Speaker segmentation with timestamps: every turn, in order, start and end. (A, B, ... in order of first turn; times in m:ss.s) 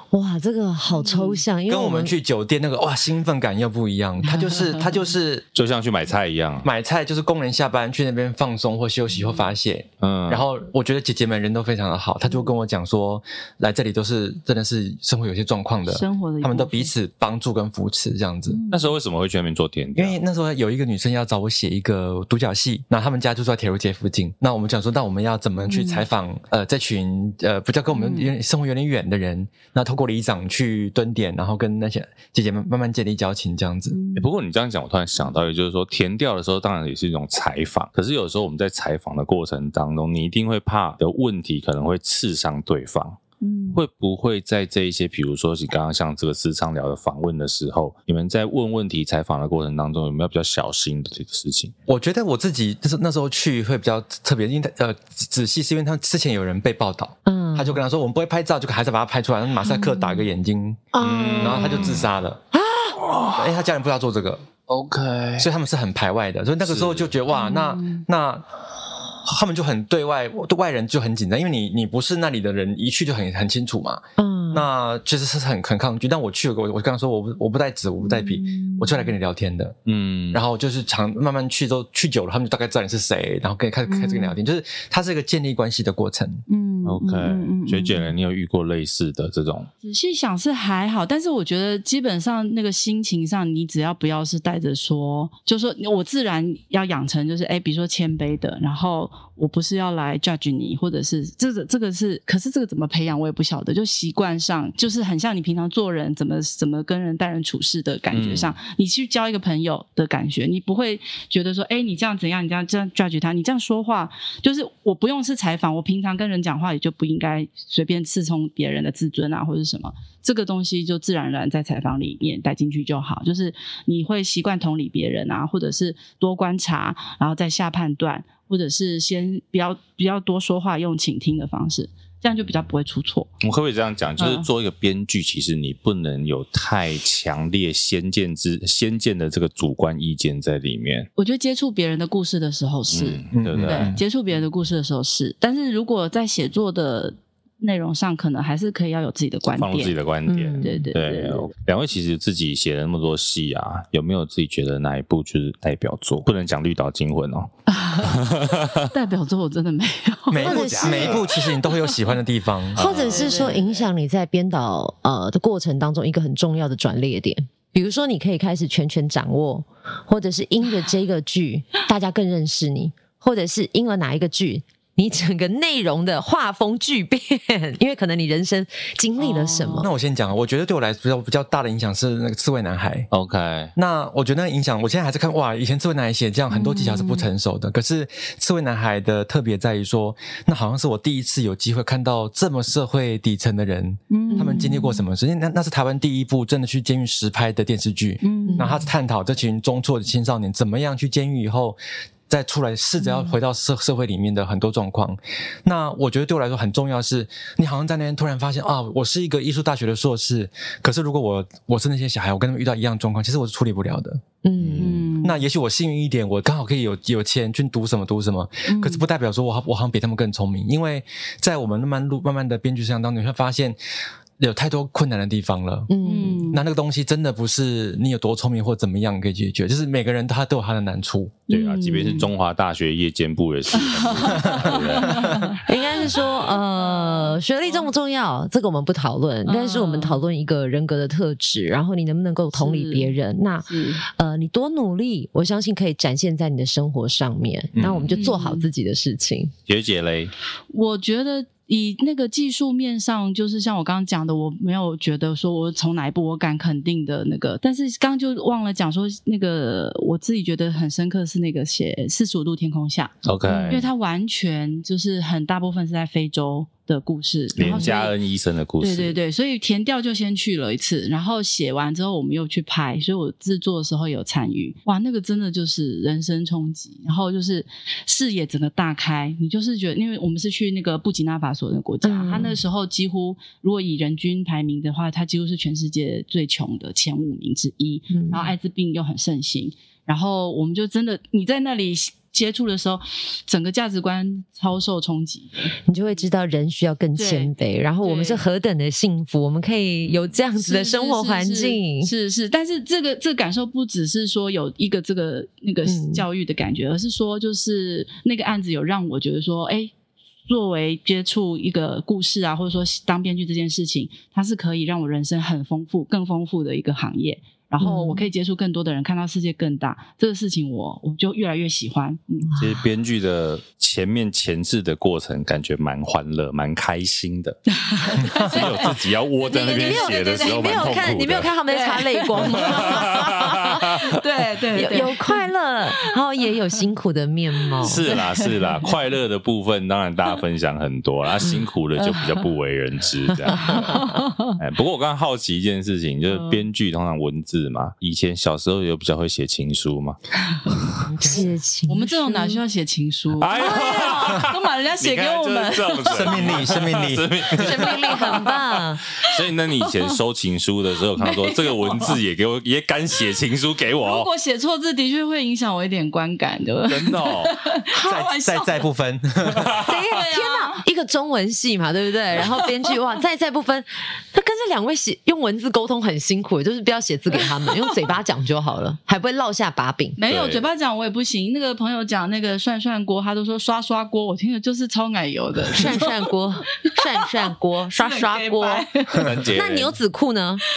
0:00.1-0:02.1 A
0:00.9-0:01.4 B
0:01.7-0:05.4 C
0:04.2-0:04.8 B
0:05.5-0:06.7 D
0:06.6-0:18.6 C
0:09.1-0:09.5 B
0:10.0-0:10.4 D
0:15.8-0:16.9 B
0:18.5-0:18.9 B
0:18.7-0:20.2 D
0:19.9-0:34.0 C
0:25.6-0:26.0 B
0:27.9-0:28.3 B
0:33.9-0:34.3 B
0:34.1-0:43.2 D
0:43.4-0:43.8 B
0:43.7-0:51.7 D
0:51.9-1:02.4 C
0:57.2-0:57.8 A
0:59.8-1:00.1 A
1:00.9-1:03.0 A
1:01.0-1:02.1 D
1:03.0-1:03.4 D
1:03.3-1:04.4 C
1:04.7-1:05.5 D
1:05.4-1:08.5 C
1:06.6-1:07.1 D
1:07.3-1:07.8 A
1:07.5-1:08.0 B
1:09.2-1:19.8 C
1:14.2-1:14.7 A
1:18.0-1:19.1 B
1:19.8-1:20.4 D
1:20.3-1:26.4 C
1:23.8-1:24.4 B
1:26.5-1:28.1 B
1:26.8-1:29.7 D
1:29.8-2:13.3 B
1:48.1-1:48.5 D
2:13.4-2:21.1 D
2:14.2-2:14.5 B
2:21.2-2:29.9 B
2:22.9-2:24.0 D
2:23.3-2:24.0 C
2:29.5-2:37.5 D
2:30.3-2:30.9 A
2:30.6-2:31.5 B
2:37.7-2:38.3 B
2:38.0-2:38.9 D
2:38.9-2:42.0 B
2:40.3-2:42.8 C
2:40.4-2:41.3 A
2:42.8-2:59.9 A
2:42.8-2:43.2 D
2:42.9-2:43.9 B
2:59.2-2:59.9 B
2:59.8-3:03.1 C
3:03.1-3:03.7 D
3:03.8-3:34.2 C
3:06.6-3:07.2 B
3:14.1-3:14.7 B
3:14.3-3:15.0 A
3:18.2-3:18.7 B
3:18.4-3:18.9 A
3:34.4-3:35.0 A
3:34.6-3:35.0 D
3:34.8-3:35.4 B
3:35.2-3:43.8 C
3:38.7-3:39.0 B
3:44.4-3:51.4 C
3:45.9-3:46.4 A
3:46.0-3:46.6 B
3:51.5-3:52.3 B
3:51.5-3:55.5 D
3:53.7-3:55.6 B
3:54.4-3:54.7 C
3:55.6-4:09.5 A
3:56.5-3:57.9 B
3:59.4-4:00.2 B
4:02.5-4:03.1 B
4:03.7-4:04.0 B
4:07.7-4:08.2 C
4:08.1-4:08.7 B
4:09.7-4:10.3 D
4:10.7-4:23.1 B
4:23.2-4:23.9 D
4:23.5-4:23.8 A
4:23.7-4:28.1 B
4:27.6-4:29.2 D
4:27.7-4:27.9 A
4:28.8-4:55.7 B
4:42.0-4:42.6 A
4:48.1-4:48.5 A
4:55.8-5:02.1 A
4:57.1-4:58.4 B
5:00.5-5:09.9 B
5:05.8-5:06.2 A
5:10.5-5:22.5 B
5:17.8-5:18.3 A
5:22.6-5:27.6 D
5:27.7-5:31.0 B
5:28.2-5:31.5 D
5:29.6-5:34.0 A
5:31.7-5:33.2 B
5:32.4-5:34.2 D
5:34.0-5:36.0 B
5:34.7-5:38.0 A
5:37.6-5:38.8 B
5:37.8-5:51.1 D
5:42.0-5:42.4 B
5:43.3-5:44.2 A
5:43.6-5:44.6 B
5:46.3-5:46.6 B
5:51.0-5:52.6 A
5:51.9-5:56.8 B
5:53.4-6:04.3 D
5:53.5-5:54.5 A
5:56.1-5:57.9 C
5:57.5-5:59.0 A
5:59.2-6:00.1 B
6:01.2-6:02.2 B
6:04.0-6:08.8 B
6:06.9-6:07.5 D
6:08.0-6:09.8 C
6:09.5-6:09.9 D
6:09.8-6:20.2 A
6:09.9-6:10.8 B
6:12.4-6:12.9 B
6:17.6-6:17.9 B
6:20.2-6:26.3 B
6:20.3-6:20.7 D
6:25.7-6:30.6 A
6:26.8-6:29.4 B
6:29.2-6:29.9 D